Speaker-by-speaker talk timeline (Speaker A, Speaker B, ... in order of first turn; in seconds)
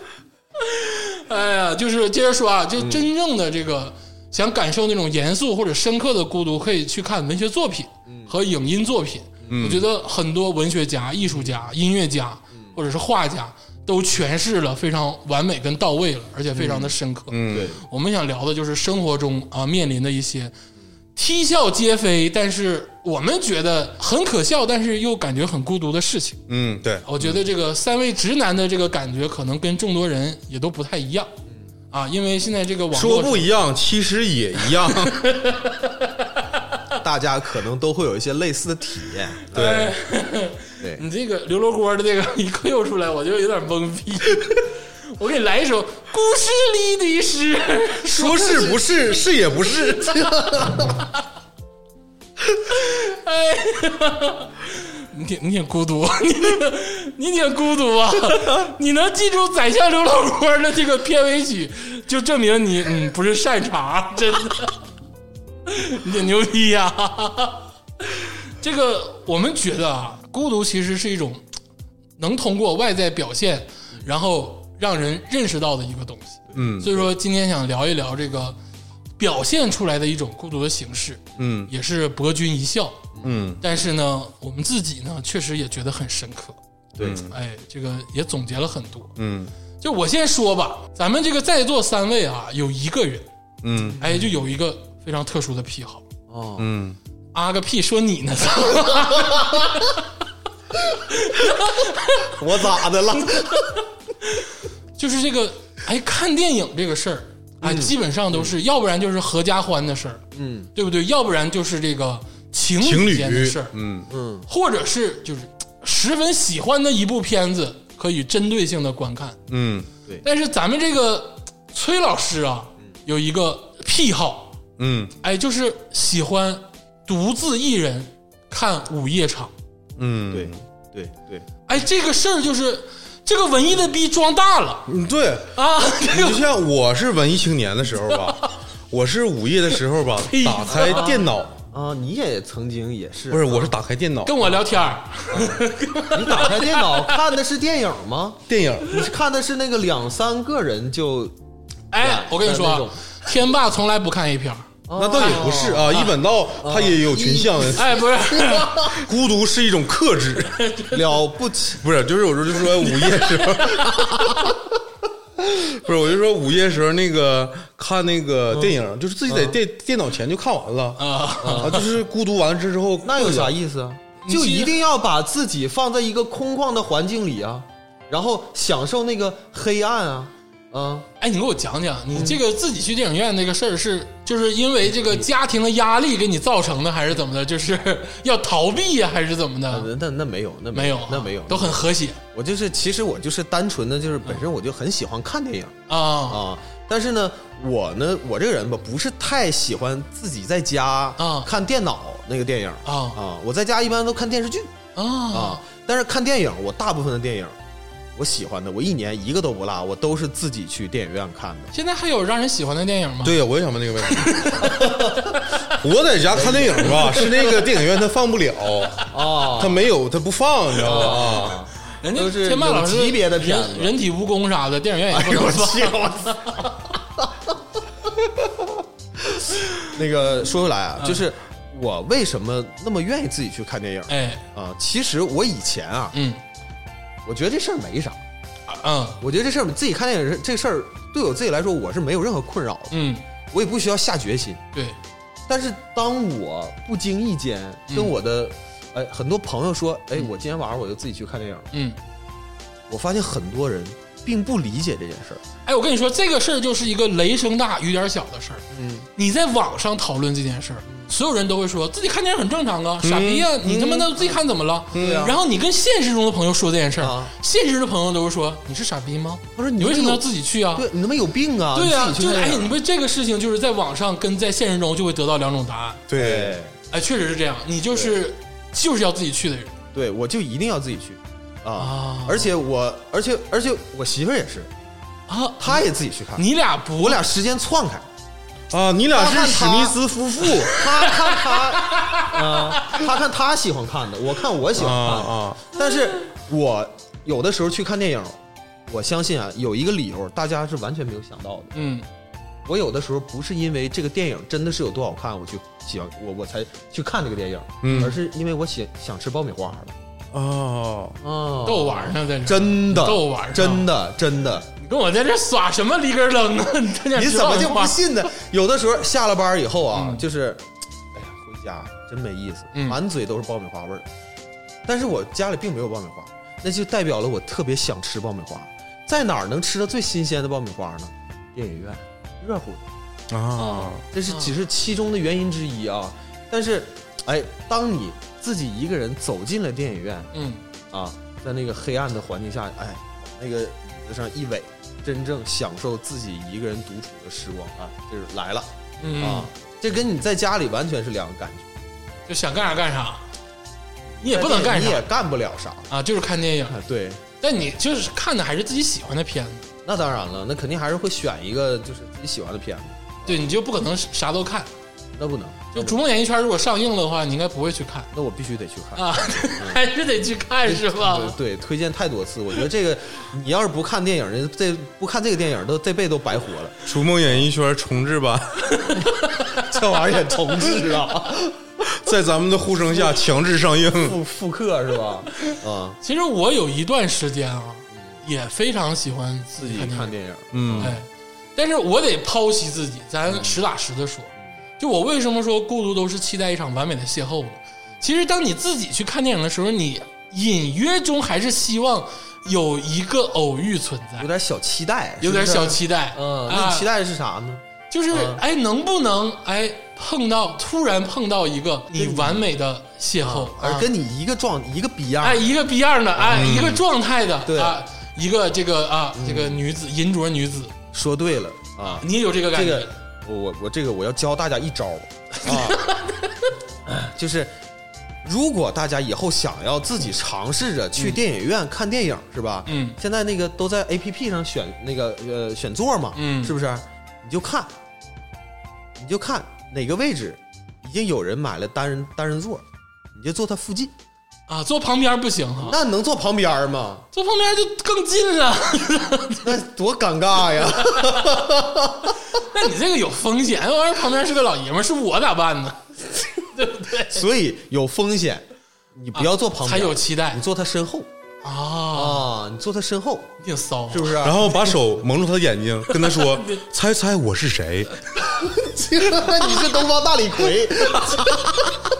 Speaker A: 0.6-20.5, 21.1-26.4, 27.0-31.3, 31.9-33.5, 35.0-36.5, 39.5-48.8, 52.7-64.8, 65.7-71.4, 72.2-78.6, 79.2-86.6, 87.2-89.1, 89.8-93.3, 94.0-96.1, 97.3-100.0, 101.1-102.7, 104.2-113.7, 114.5-119.4, 120.2-124.5, 125.2-129.5, 131.7-134.9, 135.5-136.4, 138.2-138.5, 140.2-141.1, 144.2-147.2, 151.9-156.0, 157.7-158.9, 160.6-161.2, 162.8-164.5, 171.0-171.9, 174.2-174.7, 181.2-189.9, 190.7-192.2, 195.9-196.4, 201.2-201.5, 202.8-203.2, 204.9-205.6, 211.7-213.4, 214.1-215.7, 222.0-226.7, 231.0-231.2, 234.1-234.4, 236.1-236.4, 238.7-239.2, 242.9-243.2, 247.9-248.1, 251.7-252.0, 255.6-258.6, 259.1-270.9, 271.7-276.1, 276.9-279.7, 281.8-282.5, 285.3-287.2, 291.5-293.0, 301.7-302.1, 311.6-313.9, 314.8-318.0, 319.9-320.2, 334.3-334.5, 340.3-340.6, 349.0-349.5, 352.3-353.2, 354.2-355.1, 355.9-356.8, 357.4-359.7, 363.2-364.7, 365.7-368.1, 368.9-371.4, 378.7-379.6, 386.0-390.1, 390.8-404.3, 405.2-406.9, 407.9-413.9, 415.2-420.7, 421.9-422.9, 425.4-426.5, 432.7-433.0, 436.1-436.5, 444.5-445.8, 447.1-449.5, 452.3-457.2, 459.1-460.4, 461.4-462.3, 463.4-464.3, 465.9-466.6
Speaker B: 2.8-3.1, 8.1-8.3, 16.6-16.9, 17.5-17.8, 37.0-39.7, 76.5-77.0, 87.0-87.3, 93.8-94.3, 96.3-96.7, 102.2-103.7, 107.6-108.5, 110.3-110.7, 114.1-114.5, 130.3-131.5, 140.7-143.7, 145.3-151.3, 152.0-153.0, 154.9-158.8, 160.9-161.8, 169.3-169.6, 171.4-171.8, 173.0-181.1, 182.1-182.4, 189.7-204.7, 205.3-207.6, 208.2-211.7, 214.7-215.2, 216.3-217.5, 219.1-219.8, 220.8-224.0, 225.1-227.5, 228.4-236.1, 237.2-238.2, 239.2-243.0, 243.5-244.6, 245.5-251.7, 252.9-255.4, 258.7-259.1, 264.9-265.4, 267.0-267.3, 269.6-272.7, 276.1-276.8, 279.9-284.7, 285.6-286.4, 287.0-288.1, 289.1-301.7, 302.6-309.9, 311.2-314.7, 317.1-324.1, 324.8-332.8, 333.6-340.3, 340.9-351.7, 354.1-355.9, 356.7-357.2, 359.8-363.5, 365.1-366.0, 368.1-369.0, 369.6-369.8, 370.6-377.5, 379.4-381.6, 383.9-386.0, 389.6-391.0, 393.3-393.6, 404.2-408.4, 411.9-412.4, 413.2-415.5, 416.2-416.5, 417.4-417.8, 419.1-419.6, 420.9-425.8, 426.9-427.6, 428.2-437.7, 439.0-443.9, 445.6-447.1, 449.4-452.1, 457.1-461.1, 461.9-463.3, 463.9-464.6, 468.3-471.8
Speaker C: 9.5-9.8, 17.3-17.7, 26.5-27.4, 32.9-35.2, 39.5-39.9, 48.1-50.9, 76.5-76.9, 81.4-81.7, 83.2-83.6, 87.0-87.3, 89.2-89.5, 93.6-94.0, 96.6-97.0, 112.8-114.1, 119.5-119.9, 124.8-125.1, 130.0-130.6, 134.8-141.5, 143.3-144.5, 148.5-149.0, 154.9-158.0, 158.8-160.6, 161.8-164.3, 165.4-173.5, 213.2-214.9, 215.7-221.6, 263.0-264.1, 264.9-265.4, 276.1-276.6, 288.7-290.8, 294.7-295.7, 307.8-308.1, 310.3-311.2, 333.3-334.0, 376.9-378.8, 381.9-384.2, 390.5-390.9, 416.3-416.8, 464.2-467.9